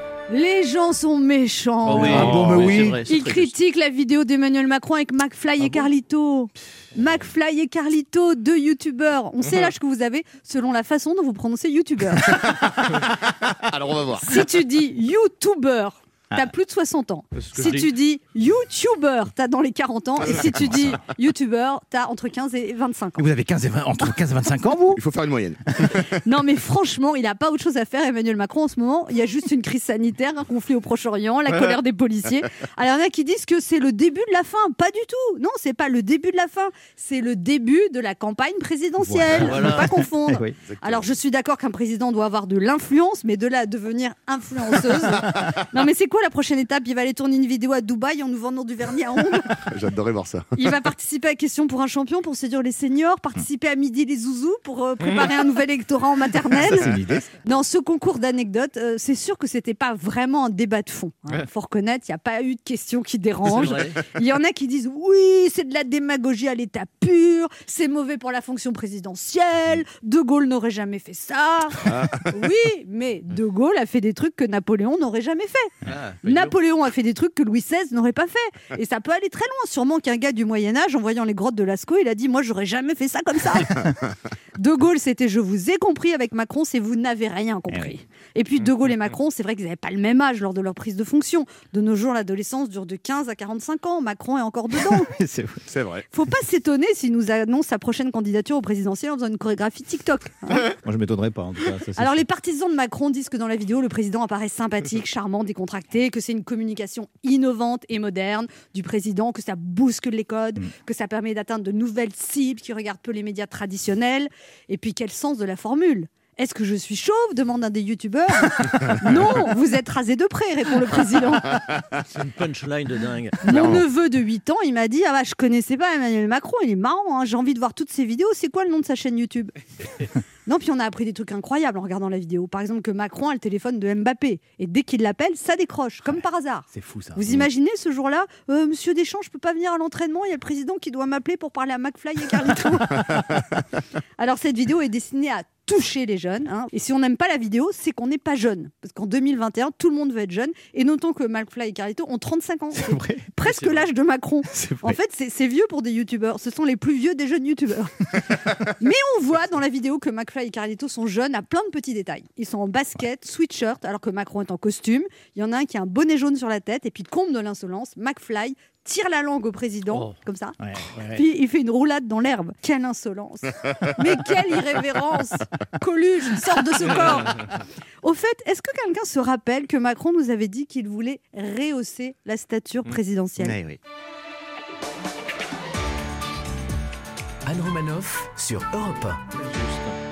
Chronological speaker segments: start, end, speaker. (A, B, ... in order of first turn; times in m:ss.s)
0:00.3-0:02.4 A
0:01.8-0:03.5 B
0:02.0-0:03.0 C
0:03.1-0:12.5 A
0:05.6-0:05.9 B
0:12.3-0:14.4 D
0:14.2-0:23.2 A
0:17.4-0:17.8 B
0:23.2-0:25.0 C
0:25.0-0:26.2 D
0:26.2-0:49.5 A
0:39.0-0:40.6 C
0:39.4-0:39.9 B
0:40.7-0:41.1 D
0:49.6-0:50.5 D
0:50.6-0:56.9 A
0:56.5-0:57.3 C
0:57.4-1:15.7 A
1:03.4-1:04.0 B
1:11.9-1:12.2 D
1:15.9-1:16.6 B
1:16.2-1:23.9 A
1:24.6-1:35.1 A
1:27.7-1:28.0 C
1:34.9-1:35.6 C
1:35.7-1:36.0 D
1:36.1-1:40.7 A
1:40.6-1:42.2 C
1:42.0-2:01.6 A
2:02.1-2:03.8 B
2:03.4-2:09.5 A
2:03.5-2:03.8 D
2:10.5-2:23.2 A
2:16.0-2:17.5 C
2:24.2-2:37.9 A
2:32.8-2:33.2 C
2:33.4-2:33.8 B
2:34.6-2:35.0 C
2:38.5-2:50.6 A
2:50.9-2:51.2 B
2:51.1-2:57.5 A
2:58.0-3:03.6 A
3:03.4-3:03.8 C
3:07.4-3:09.7 E
3:09.4-3:09.8 B